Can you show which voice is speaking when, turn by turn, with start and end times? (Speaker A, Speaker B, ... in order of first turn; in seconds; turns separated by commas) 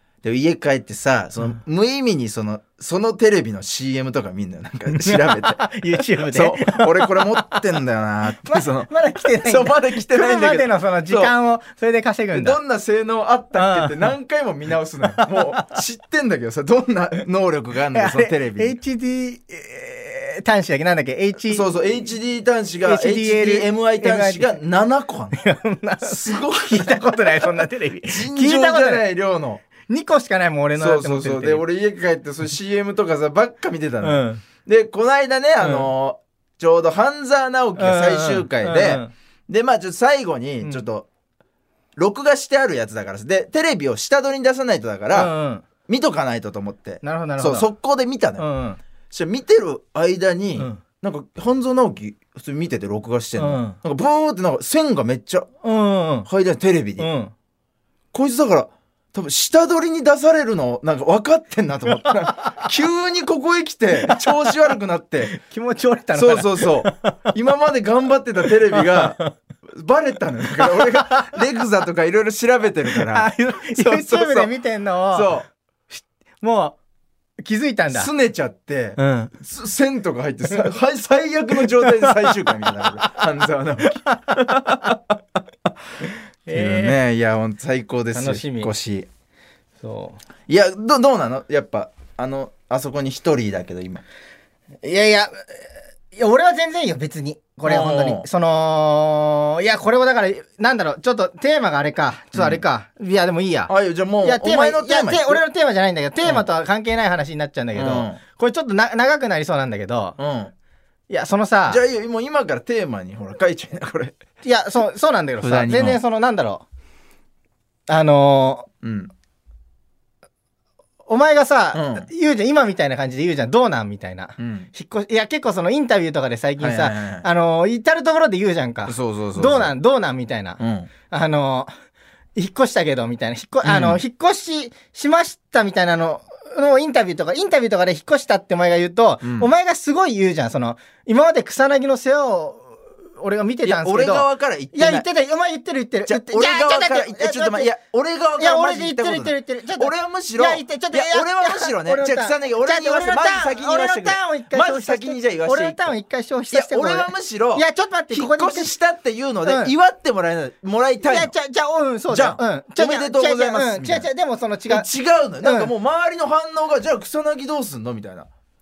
Speaker A: 0.2-8.9, Speaker B: 4.9-7.6, Speaker B: 8.4-12.6, Speaker A: 9.4-11.3, Speaker A: 12.3-18.8, Speaker B: 13.6-14.1, Speaker B: 15.0-15.8, Speaker B: 17.9-21.6, Speaker A: 21.5-25.4, Speaker B: 22.8-24.5, Speaker B: 25.3-29.0, Speaker A: 26.0-27.1, Speaker A: 28.0-29.6, Speaker B: 29.9-31.6, Speaker A: 30.8-41.1, Speaker B: 34.0-34.4, Speaker B: 35.6-35.9, Speaker B: 37.8-39.1, Speaker A: 42.0-45.3, Speaker B: 45.1-45.6, Speaker A: 45.9-48.4, Speaker B: 47.0-47.7, Speaker B: 48.4-48.8, Speaker A: 49.1-55.5, Speaker B: 50.6-50.8, Speaker B: 53.4-53.8, Speaker B: 55.6-56.3, Speaker A: 56.3-57.1, Speaker B: 57.0-57.3, Speaker A: 58.1-65.3, Speaker B: 61.9-62.6, Speaker B: 64.0-64.7, Speaker B: 65.3-67.2, Speaker A: 66.1-74.5, Speaker B: 68.7-69.3, Speaker B: 70.6-71.3, Speaker B: 72.9-76.8, Speaker A: 75.1-75.5, Speaker B: 77.4-78.1, Speaker A: 77.9-85.0, Speaker B: 79.0-79.3, Speaker B: 81.5-82.4, Speaker B: 83.8-84.3, Speaker B: 86.5-87.0, Speaker A: 86.5-89.1, Speaker B: 88.1-88.7, Speaker B: 89.8-90.2, Speaker A: 90.5-94.0, Speaker B: 94.8-110.2, Speaker A: 97.6-98.3, Speaker A: 102.3-102.6, Speaker A: 103.7-105.4, Speaker A: 107.7-108.2, Speaker A: 110.2-110.5, Speaker B: 111.1-111.8, Speaker A: 111.7-114.1, Speaker B: 114.4-116.6, Speaker A: 115.4-116.0, Speaker B: 117.9-118.7, Speaker A: 118.8-119.1, Speaker B: 121.0-130.6, Speaker A: 121.7-122.1, Speaker A: 124.4-124.7, Speaker A: 126.6-127.3, Speaker A: 128.9-129.7, Speaker A: 130.6-130.9, Speaker B: 131.1-131.7, Speaker B: 132.3-147.7, Speaker A: 133.6-134.0, Speaker A: 139.2-139.5, Speaker A: 143.6-145.1, Speaker A: 146.0-155.9, Speaker B: 148.4-158.7, Speaker A: 156.5-161.3, Speaker B: 159.4-159.7, Speaker B: 161.0-164.9, Speaker A: 162.1-164.1, Speaker A: 164.7-168.3, Speaker B: 165.4-165.7